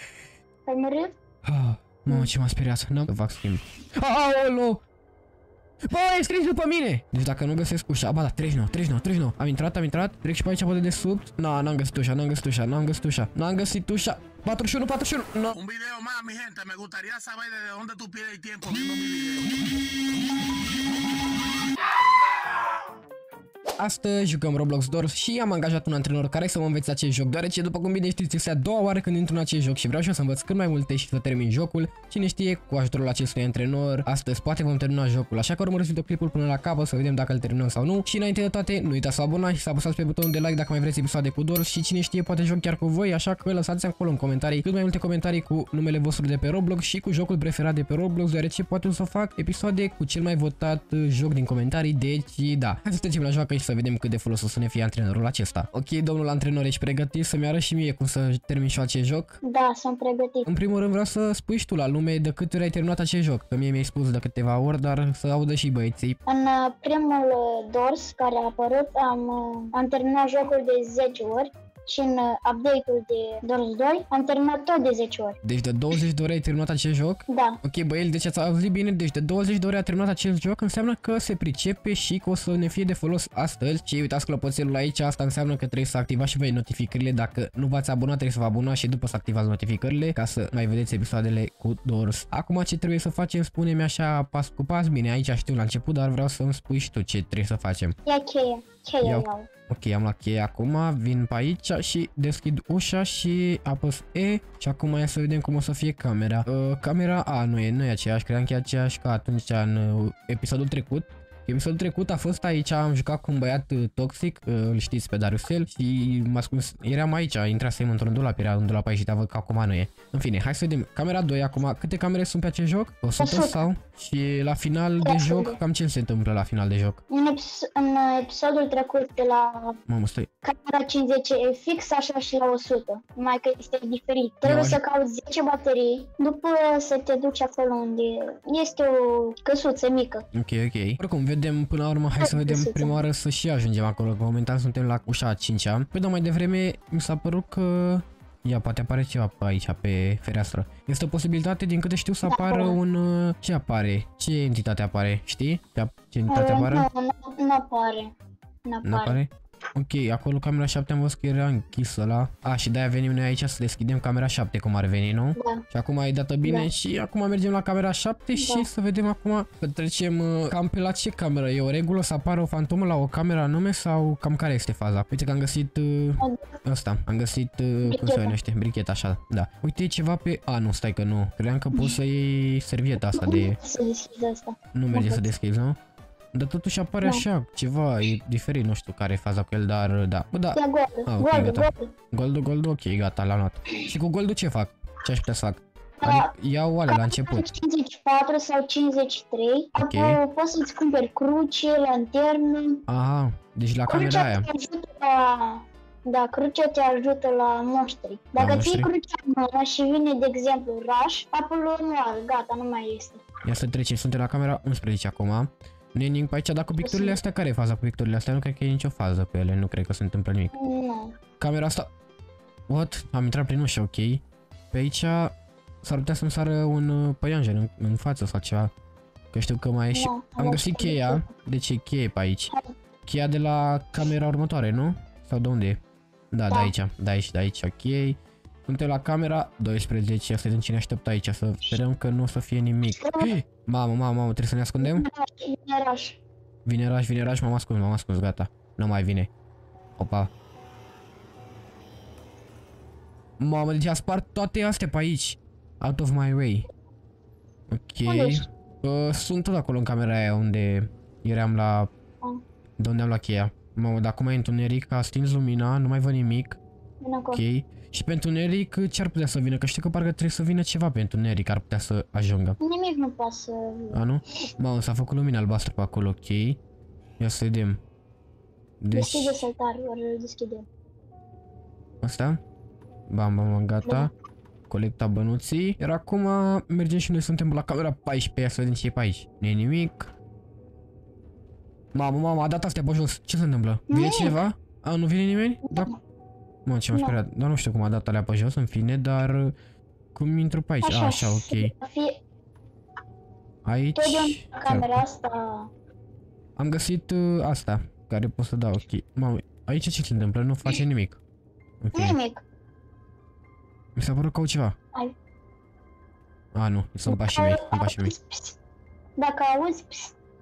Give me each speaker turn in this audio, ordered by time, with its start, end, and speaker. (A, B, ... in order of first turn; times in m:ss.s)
0:00.7-0:01.2 A
0:01.4-0:04.8 B
0:05.9-0:15.6 B
0:15.6-0:19.6 C
0:23.8-0:59.4 B
0:59.4-1:00.5 A
1:00.5-1:06.2 B
1:06.3-1:15.4 A
1:15.4-1:38.0 B
1:17.3-1:17.6 A
1:38.1-1:39.5 A
1:39.0-2:07.0 B
2:03.2-2:03.6 A
2:05.0-2:05.6 A
2:07.1-2:09.8 A
2:09.9-2:10.3 B
2:10.4-2:20.2 A
2:14.4-2:14.8 B
2:20.3-2:36.9 B
2:22.2-2:23.0 A
2:32.2-2:32.8 A
2:36.3-2:38.1 A
2:38.7-2:39.2 A
2:38.8-3:03.6 B
2:45.4-2:45.6 A
2:48.4-2:48.7 A
2:56.2-2:56.6 A
2:57.9-2:58.3 A
3:03.1-3:05.3 A
3:04.7-3:05.8 B
3:06.3-3:17.5 B
3:10.6-3:11.9 A
3:16.0-3:16.3 A
3:16.9-3:22.8 A
3:19.8-3:20.2 B
3:22.9-3:24.5 B
3:23.9-3:33.2 A
3:28.4-3:28.9 B
3:33.4-3:40.5 B
3:36.8-3:37.2 A
3:40.5-3:41.2 A
3:41.4-3:41.9 B
3:42.7-3:48.7 B
3:49.3-3:52.5 B
3:49.9-3:51.3 A
3:53.1-3:55.8 B
3:56.3-4:05.0 B
4:02.9-4:03.3 A
4:04.8-4:06.2 A
4:06.7-4:09.3 B
4:10.0-4:10.3 B
4:13.4-4:16.7 B
4:17.7-4:21.9 B
4:18.1-4:18.4 A
4:22.8-4:26.6 B
4:27.0-4:27.4 A
4:27.3-4:32.6 B
4:32.6-4:34.0 A
4:33.9-4:36.6 B
4:37.2-4:37.8 B
4:38.8-4:39.4 B
4:38.9-4:40.7 A
4:42.0-4:42.4 B
4:43.1-4:44.1 B
4:43.8-4:44.1 A
4:44.7-4:50.1 B
4:52.0-4:55.9 B
4:53.9-4:54.4 A
4:55.6-4:56.0 A
4:56.7-4:59.6 B
4:56.9-4:57.2 A
5:00.2-5:01.7 B
5:00.8-5:02.2 A
5:03.7-5:05.0 B
5:04.0-5:05.7 A
5:06.6-5:11.2 B
5:11.8-5:12.2 B
5:11.9-5:12.4 A
5:14.0-5:14.8 B
5:16.6-5:18.1 B
5:17.1-5:18.6 A
5:19.2-5:20.2 A